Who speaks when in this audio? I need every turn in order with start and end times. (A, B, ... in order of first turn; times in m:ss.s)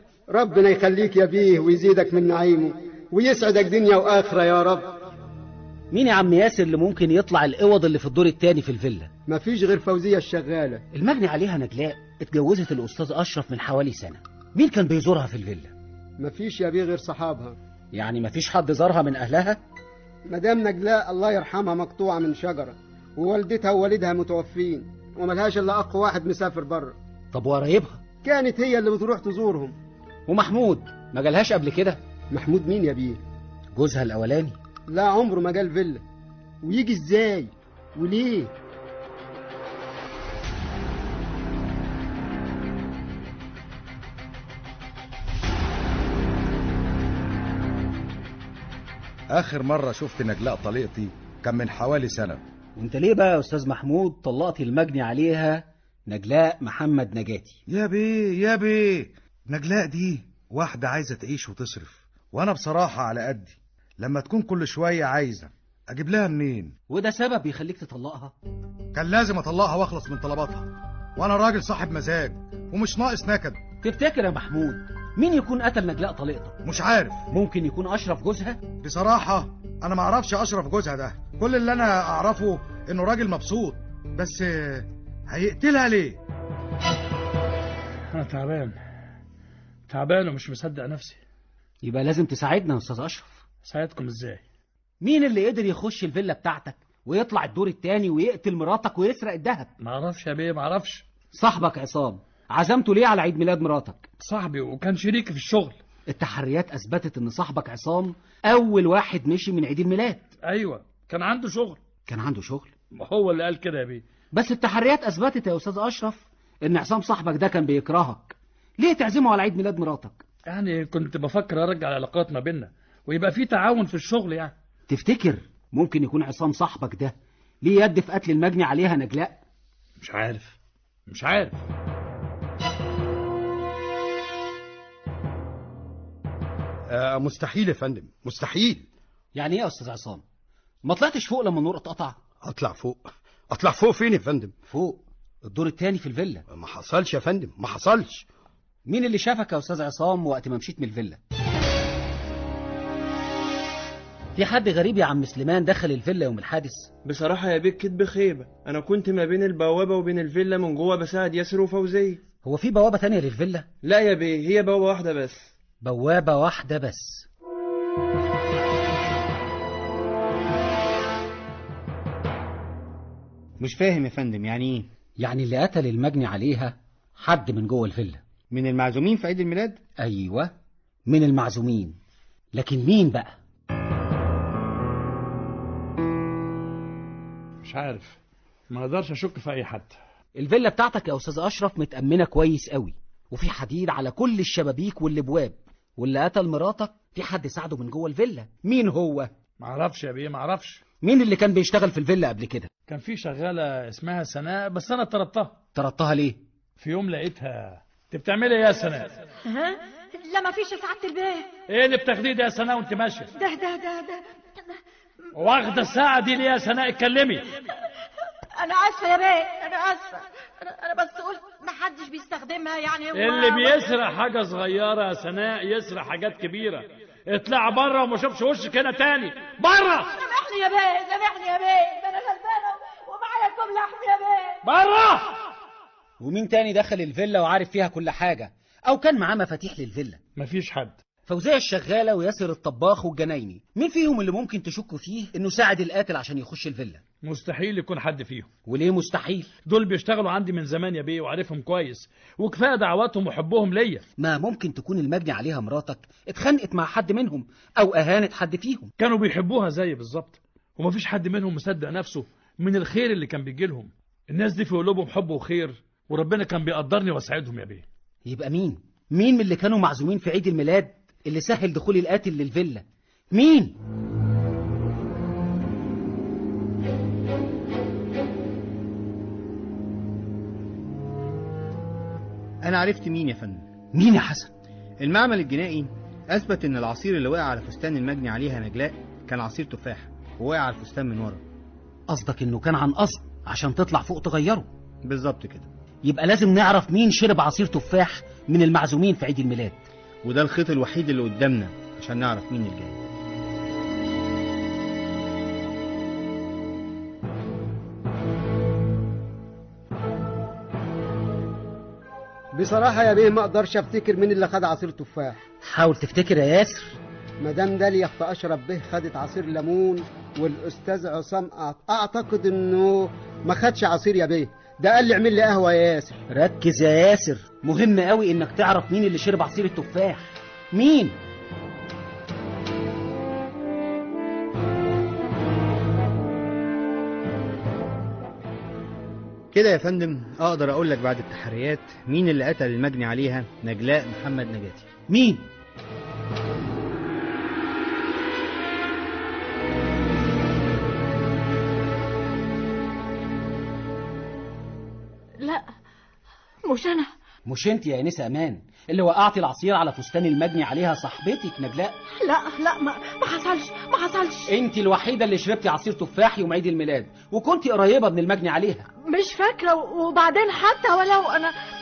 0:00.3-0:05.0 A
0:05.9-0:09.1 B
0:09.3-0:10.8 A
0:10.9-0:15.7 B
0:16.2-0:17.6 A
0:17.9-0:19.6 B
0:20.3-0:26.9 A
0:27.3-0:28.0 B
0:28.2-0:29.7 A
0:30.3-0:32.0 B
0:32.3-0:33.2 A
0:33.8-0:34.6 B
0:34.9-0:36.0 A
0:36.6-0:38.5 A
0:49.3-0:52.4 C
0:52.8-0:57.6 B
0:57.7-1:06.7 C
1:06.9-1:08.3 B
1:08.9-1:13.6 C
1:13.8-1:16.6 B
1:16.6-1:17.2 C
1:17.3-1:18.6 B
1:18.7-1:26.2 C
1:28.1-1:28.8 D
1:29.9-1:31.2 D
1:31.8-1:33.4 B
1:33.6-1:34.4 D
1:35.0-1:39.7 B
1:39.8-1:41.0 D
1:41.3-1:44.1 B
1:44.2-1:45.8 D
1:46.1-1:50.3 B
1:50.4-1:51.8 D
1:52.0-1:52.7 B
1:52.9-1:54.0 D
1:54.3-2:00.2 B
2:00.5-2:04.5 D
2:04.9-2:09.4 B
2:10.0-2:10.6 D
2:11.1-2:11.6 D
2:16.9-2:18.9 E
2:19.4-2:20.2 B
2:20.8-2:22.2 B
2:22.4-2:24.6 E
2:24.7-2:26.4 B
2:26.5-2:28.2 E
2:28.9-2:31.2 B
2:34.4-2:36.9 B
2:37.0-2:42.2 F
2:42.4-2:43.7 B
2:43.8-2:45.5 F
2:45.8-2:47.3 B
2:53.6-2:54.9 G
2:55.2-2:58.2 B
2:58.5-2:59.8 G
3:00.0-3:00.5 B
3:01.1-3:02.0 B
3:02.5-3:03.4 B
3:07.6-3:08.2 D
3:08.7-3:10.0 D
3:10.4-3:19.3 B
3:19.6-3:20.8 D
3:21.0-3:22.7 B
3:22.9-3:25.6 D
3:25.8-3:26.4 B
3:26.8-3:29.2 D
3:29.5-3:31.5 H
3:31.7-3:33.3 D
3:33.4-3:34.2 H
3:35.4-3:37.5 D
3:38.6-3:43.9 H
3:43.1-3:50.1 D
3:50.1-3:54.6 H
3:54.6-3:55.3 D
3:56.2-4:00.2 B
4:00.4-4:01.0 D
4:01.3-4:07.0 B
4:07.2-4:08.5 D
4:08.7-4:09.5 B
4:09.7-4:14.0 D
4:14.2-4:18.9 B
4:19.0-4:27.8 D
4:28.3-4:33.8 B
4:42.6-4:43.6 G
4:43.9-4:44.5 B
4:45.0-4:51.4 G
4:52.1-4:54.7 B
4:55.0-4:55.7 G
4:56.0-4:59.8 B
5:00.2-5:03.0 G
5:12.5-5:15.4 A
5:15.6-5:17.0 B
5:17.4-5:26.2 A
5:26.3-5:31.2 B
5:39.5-5:44.9 G
5:45.1-5:45.5 B
5:55.4-5:55.7 H
5:56.6-5:57.1 H
5:57.5-6:02.0 B
6:02.2-6:04.5 H
6:04.5-6:08.8 B
6:09.0-6:11.5 H